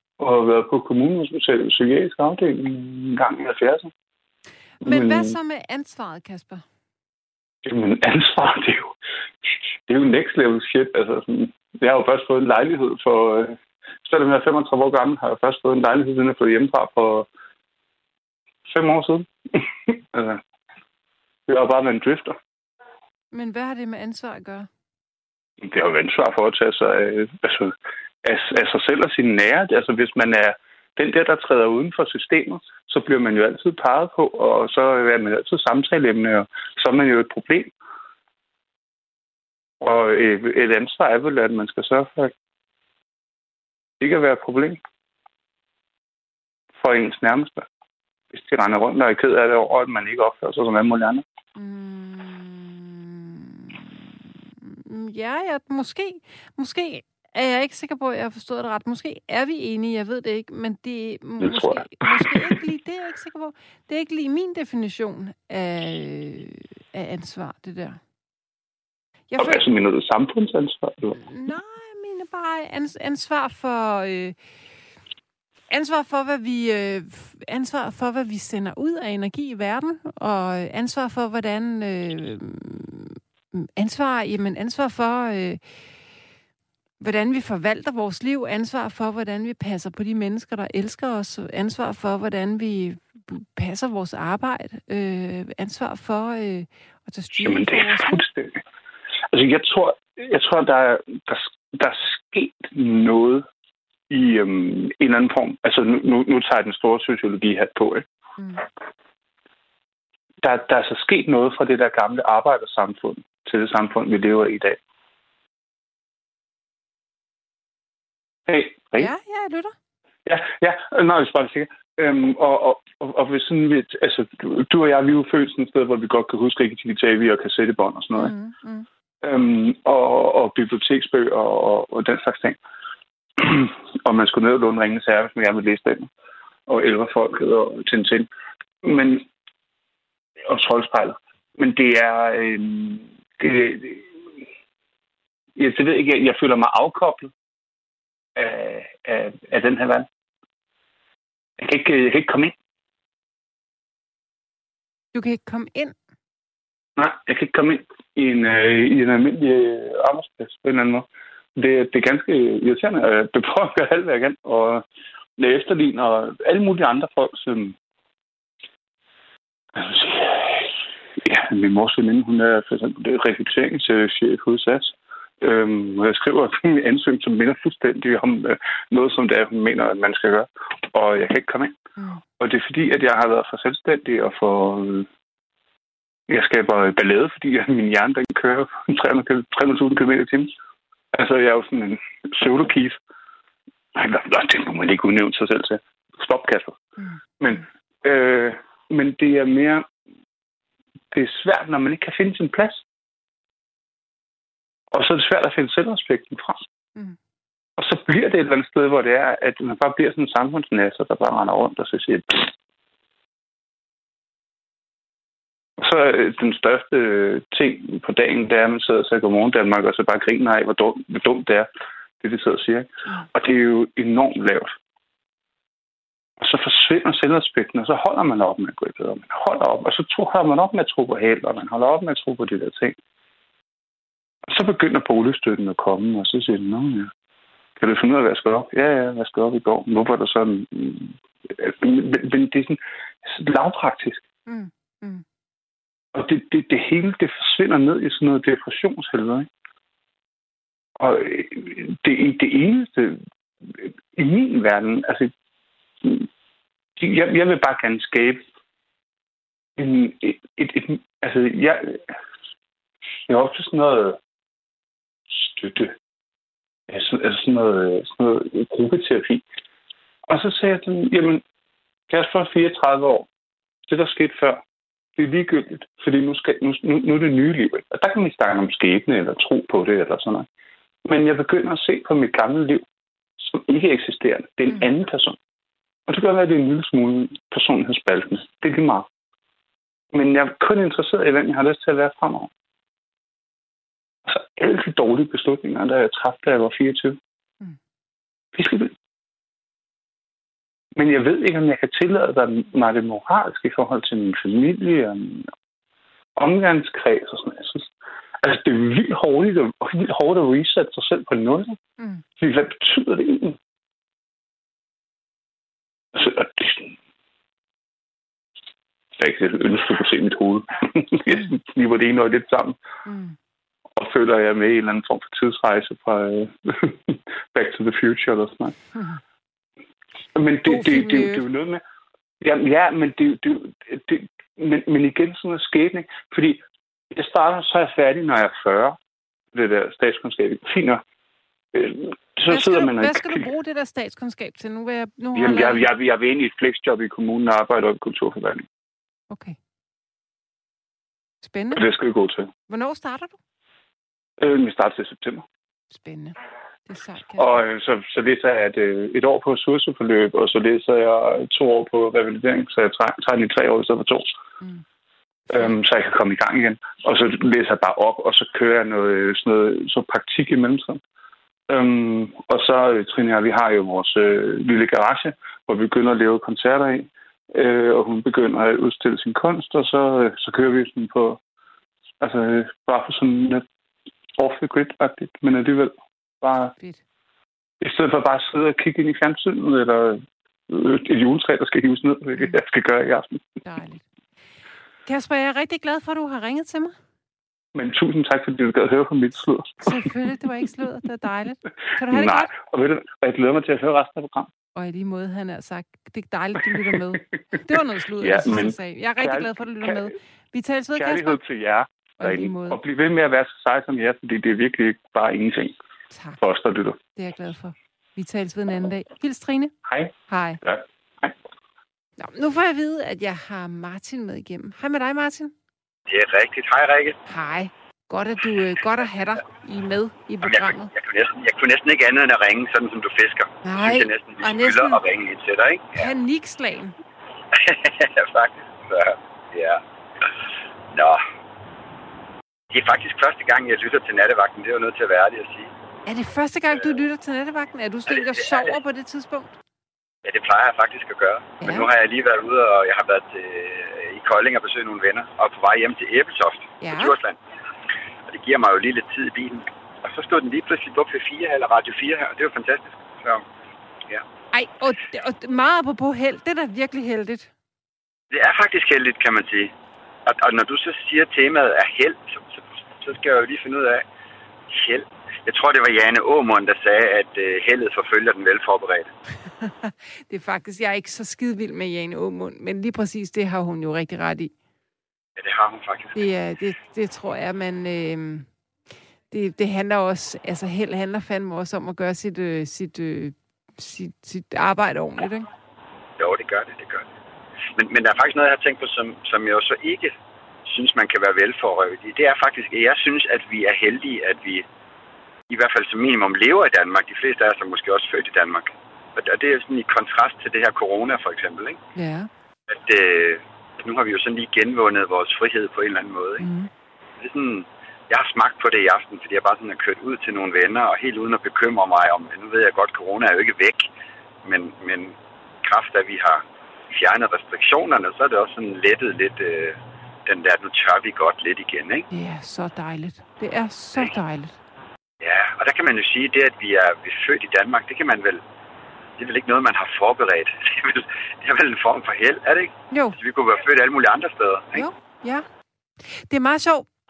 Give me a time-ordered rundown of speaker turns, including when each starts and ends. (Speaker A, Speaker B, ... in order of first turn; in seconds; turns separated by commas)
Speaker A: 0.2-3.9, Speaker B: 4.8-6.6, Speaker A: 4.8-5.4, Speaker A: 7.6-8.9, Speaker A: 9.9-17.3, Speaker A: 18.6-20.4, Speaker A: 21.5-22.4, Speaker B: 23.3-24.7, Speaker A: 25.6-37.7, Speaker A: 39.8-42.3, Speaker A: 44.0-44.8, Speaker A: 46.8-47.7, Speaker A: 48.3-51.2, Speaker B: 51.6-68.0, Speaker A: 61.4-62.4, Speaker B: 69.3-69.6, Speaker A: 69.4-71.2, Speaker B: 71.2-74.4, Speaker B: 75.7-85.6, Speaker B: 87.0-98.2, Speaker A: 97.4-98.6, Speaker A: 99.3-103.5, Speaker A: 104.1-108.1, Speaker B: 108.4-108.6, Speaker A: 110.4-114.8, Speaker A: 118.5-119.1, Speaker B: 119.0-119.8, Speaker A: 120.3-128.3, Speaker B: 128.2-128.9, Speaker A: 129.2-132.6, Speaker A: 133.4-136.1, Speaker A: 136.7-138.3, Speaker A: 138.8-139.3, Speaker A: 140.4-144.1, Speaker A: 145.6-147.3, Speaker A: 148.3-150.1, Speaker A: 151.6-152.5, Speaker B: 155.1-156.0, Speaker A: 157.0-164.8, Speaker A: 165.4-167.8, Speaker A: 169.7-181.8, Speaker B: 182.0-182.2, Speaker A: 182.4-185.1, Speaker A: 186.3-190.5, Speaker A: 191.1-193.0, Speaker A: 193.9-196.8, Speaker A: 197.4-199.9, Speaker A: 201.1-202.8, Speaker A: 204.9-206.7, Speaker A: 207.8-212.5, Speaker A: 215.8-221.7, Speaker A: 222.2-224.7, Speaker A: 226.4-233.0, Speaker A: 234.4-237.1, Speaker A: 237.8-244.2, Speaker B: 244.5-245.2, Speaker A: 246.1-249.5, Speaker A: 251.0-255.3, Speaker A: 256.0-256.3, Speaker A: 257.0-258.4, Speaker A: 259.8-262.1, Speaker A: 263.3-264.2, Speaker A: 265.3-266.0, Speaker A: 266.9-269.4, Speaker A: 270.3-271.4, Speaker A: 272.1-273.3, Speaker A: 273.9-274.6, Speaker A: 275.2-280.5, Speaker A: 281.1-282.9, Speaker A: 283.4-285.4, Speaker A: 286.1-289.1, Speaker A: 290.1-292.5, Speaker A: 294.3-297.2, Speaker A: 298.5-299.0, Speaker A: 300.9-305.5, Speaker A: 306.4-307.9, Speaker A: 308.4-311.8, Speaker B: 312.0-312.2, Speaker A: 312.4-313.6, Speaker A: 316.1-317.0, Speaker A: 319.2-322.8, Speaker B: 323.1-323.4, Speaker A: 324.0-328.8, Speaker B: 328.9-329.2, Speaker A: 330.4-331.8, Speaker B: 330.7-331.4, Speaker A: 332.4-339.0, Speaker A: 339.5-341.0, Speaker A: 341.7-343.5, Speaker B: 342.5-345.9, Speaker A: 345.4-348.7, Speaker B: 349.3-349.6, Speaker B: 351.4-351.9, Speaker A: 351.8-352.5, Speaker B: 352.7-353.4, Speaker A: 354.4-355.4, Speaker B: 355.9-357.6, Speaker A: 357.4-364.3, Speaker A: 365.5-371.0, Speaker A: 371.7-381.4, Speaker A: 382.2-383.6, Speaker A: 384.4-386.7, Speaker A: 387.8-393.4, Speaker B: 393.6-394.1, Speaker B: 395.1-396.9, Speaker A: 397.7-400.1, Speaker B: 399.8-402.5, Speaker A: 402.1-404.5, Speaker B: 404.8-411.4, Speaker A: 408.2-410.1, Speaker A: 411.0-415.8, Speaker B: 412.2-412.8, Speaker B: 416.1-416.4, Speaker A: 416.4-417.0, Speaker B: 417.1-419.7, Speaker A: 419.9-421.4, Speaker B: 420.3-420.6, Speaker B: 422.2-425.5, Speaker C: 426.1-427.2, Speaker B: 427.3-430.9, Speaker C: 430.4-436.1, Speaker B: 433.6-435.0, Speaker B: 435.9-436.9, Speaker C: 437.5-439.8, Speaker C: 440.9-441.2, Speaker C: 442.7-445.7, Speaker B: 446.1-449.6, Speaker C: 448.4-448.7, Speaker C: 450.2-457.4, Speaker B: 451.6-451.9, Speaker B: 456.8-457.1, Speaker C: 458.3-463.4, Speaker B: 464.5-467.5, Speaker C: 468.3-469.7, Speaker C: 470.3-474.0, Speaker C: 474.7-479.1, Speaker B: 479.6-484.5, Speaker C: 485.4-486.3, Speaker B: 486.1-488.5, Speaker B: 489.3-495.5, Speaker C: 496.2-497.1, Speaker C: 497.8-500.1, Speaker C: 500.7-504.7, Speaker C: 505.5-511.8, Speaker B: 511.9-512.3, Speaker C: 512.7-516.5, Speaker B: 516.4-516.7, Speaker C: 517.2-523.9, Speaker C: 524.4-532.1, Speaker B: 532.1-534.6, Speaker C: 535.2-538.4, Speaker C: 539.2-544.9, Speaker B: 542.9-543.2, Speaker B: 544.8-545.5, Speaker B: 546.0-546.9